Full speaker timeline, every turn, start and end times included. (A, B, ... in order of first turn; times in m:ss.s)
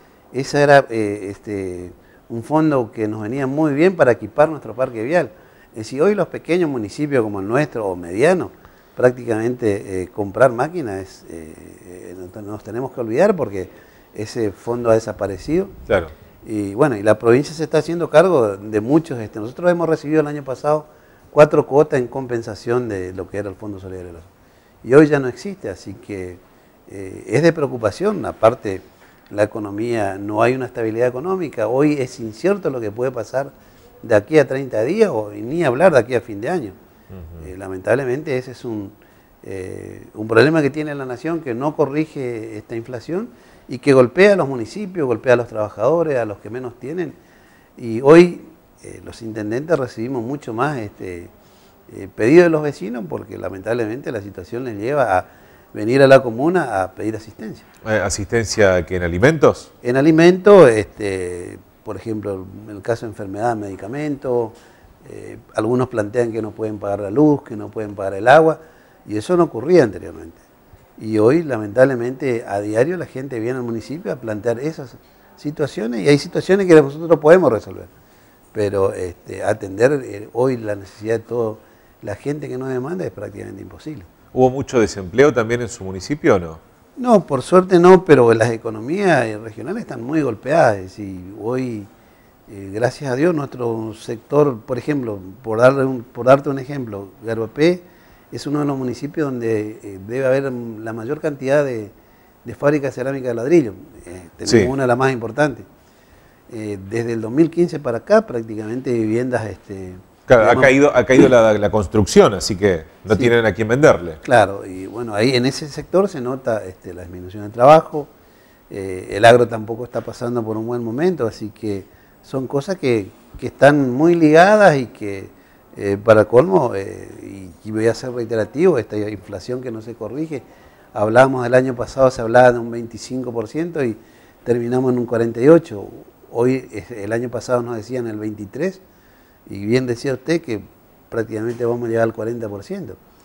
0:00.3-0:15.7 A
0:16.4-0:24.3 A
0:24.8-0:33.5 A
0:34.0-0:36.7 A
0:37.1-0:37.4 B
0:37.4-0:47.2 A
0:47.8-0:51.3 A
0:51.9-0:57.7 A
0:57.8-0:59.7 B
0:59.8-1:10.4 A
1:11.0-1:17.9 A
1:18.5-1:24.1 A
1:24.3-1:26.6 B
1:27.0-1:31.9 A
1:32.5-1:41.9 A
1:42.4-1:45.6 A
1:44.4-1:44.7 B
1:46.5-1:50.7 A
1:50.3-1:54.2 B
1:53.1-1:53.3 A
1:54.2-1:58.1 A
1:58.7-2:18.8 A
2:19.5-2:23.0 A